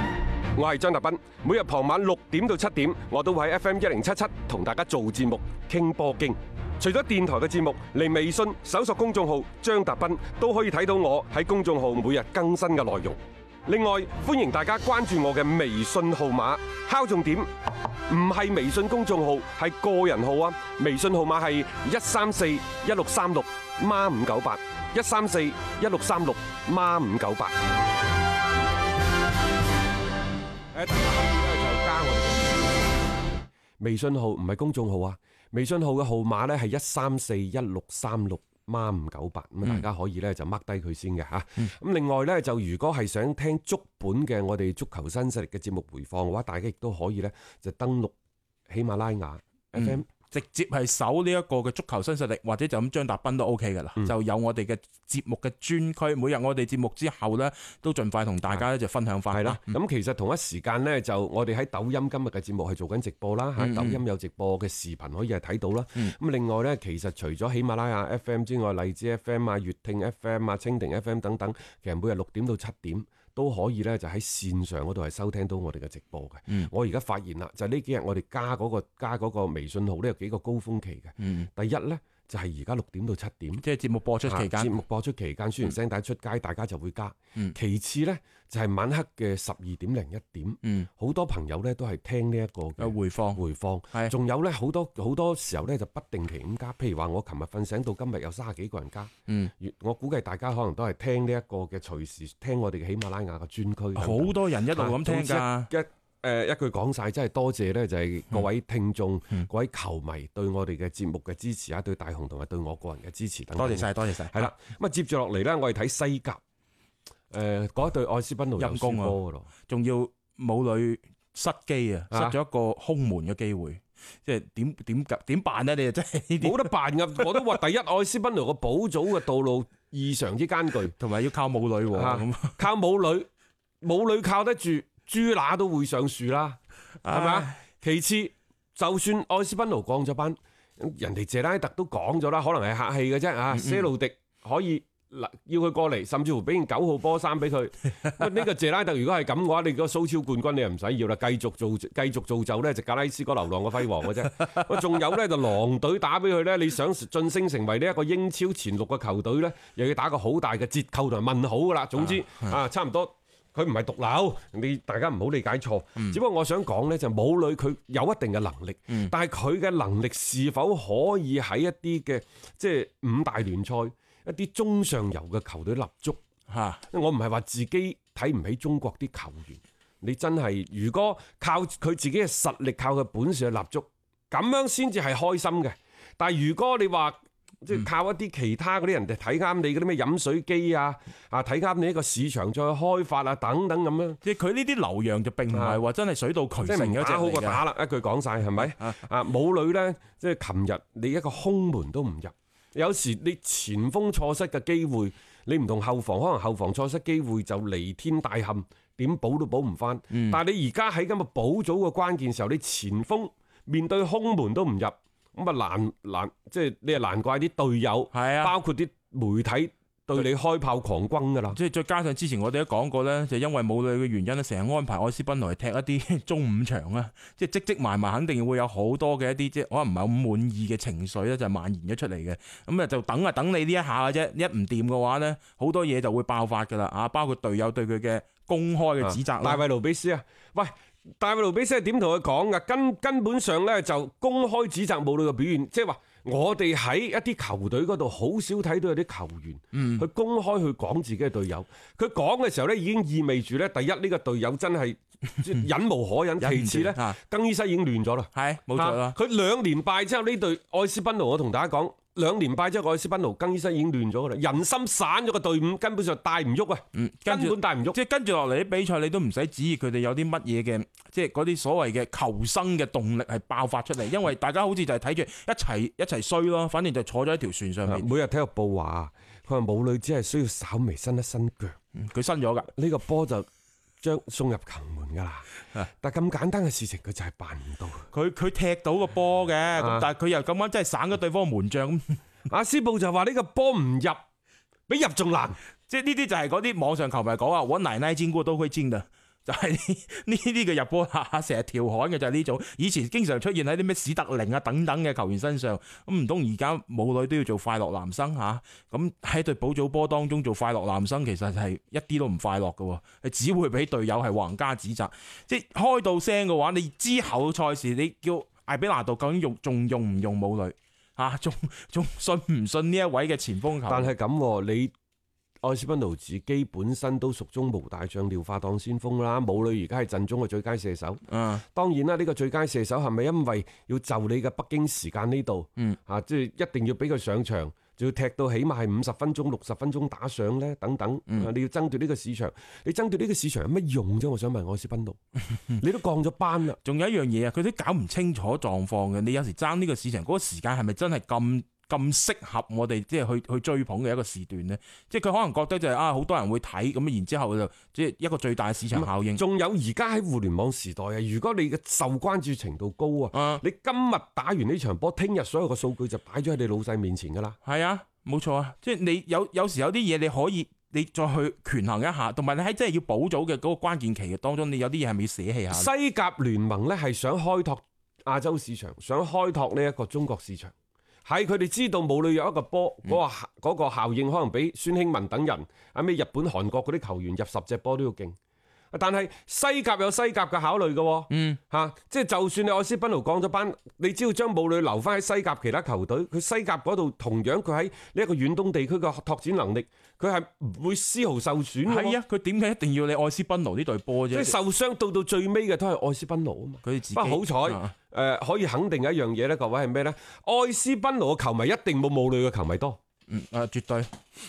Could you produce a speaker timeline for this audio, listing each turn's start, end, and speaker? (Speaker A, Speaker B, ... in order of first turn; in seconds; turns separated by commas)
Speaker A: 0.6-17.5, Speaker A: 18.1-27.5, Speaker A: 30.7-32.9, Speaker A: 33.8-48.1, Speaker A: 48.7-50.1, Speaker B: 49.8-59.7, Speaker A: 59.3-83.6, Speaker B: 63.6-64.0, Speaker B: 81.2-81.5, Speaker B: 83.6-84.7, Speaker A: 84.2-116.4, Speaker B: 92.8-93.4, Speaker B: 104.0-105.7, Speaker B: 113.6-114.5, Speaker A: 117.3-119.5, Speaker B: 118.6-119.2, Speaker B: 119.7-127.4, Speaker A: 122.1-122.3, Speaker A: 126.4-130.9, Speaker B: 131.0-132.6, Speaker A: 131.9-133.3, Speaker A: 133.8-176.2, Speaker B: 137.0-137.5, Speaker B: 143.5-143.8, Speaker B: 176.5-176.8, Speaker A: 176.9-194.2, Speaker B: 194.2-197.6, Speaker A: 195.5-195.8, Speaker A: 196.7-221.6, Speaker B: 210.1-210.4, Speaker B: 218.1-218.5, Speaker B: 221.5-239.6, Speaker A: 239.0-268.0, Speaker B: 249.7-250.0, Speaker B: 256.4-257.2, Speaker B: 258.3-259.1, Speaker B: 266.9-278.1, Speaker A: 277.9-281.8, Speaker B: 281.9-282.7, Speaker A: 282.7-283.5, Speaker A: 284.0-285.5, Speaker A: 286.0-288.1, Speaker B: 288.1-292.2, Speaker A: 289.8-290.1, Speaker A: 292.5-294.2, Speaker A: 294.9-295.6, Speaker B: 295.9-324.1, Speaker A: 323.9-324.9, Speaker A: 325.6-345.2, Speaker B: 331.3-331.6, Speaker A: 345.7-346.8, Speaker B: 346.8-359.4, Speaker A: 358.9-367.6, Speaker B: 363.3-363.6, Speaker B: 367.6-375.9, Speaker A: 375.7-380.7, Speaker A: 381.2-388.4, Speaker A: 388.9-402.2, Speaker B: 391.3-391.6, Speaker B: 401.9-404.6, Speaker A: 404.3-413.0, Speaker B: 406.8-407.9, Speaker B: 413.3-414.1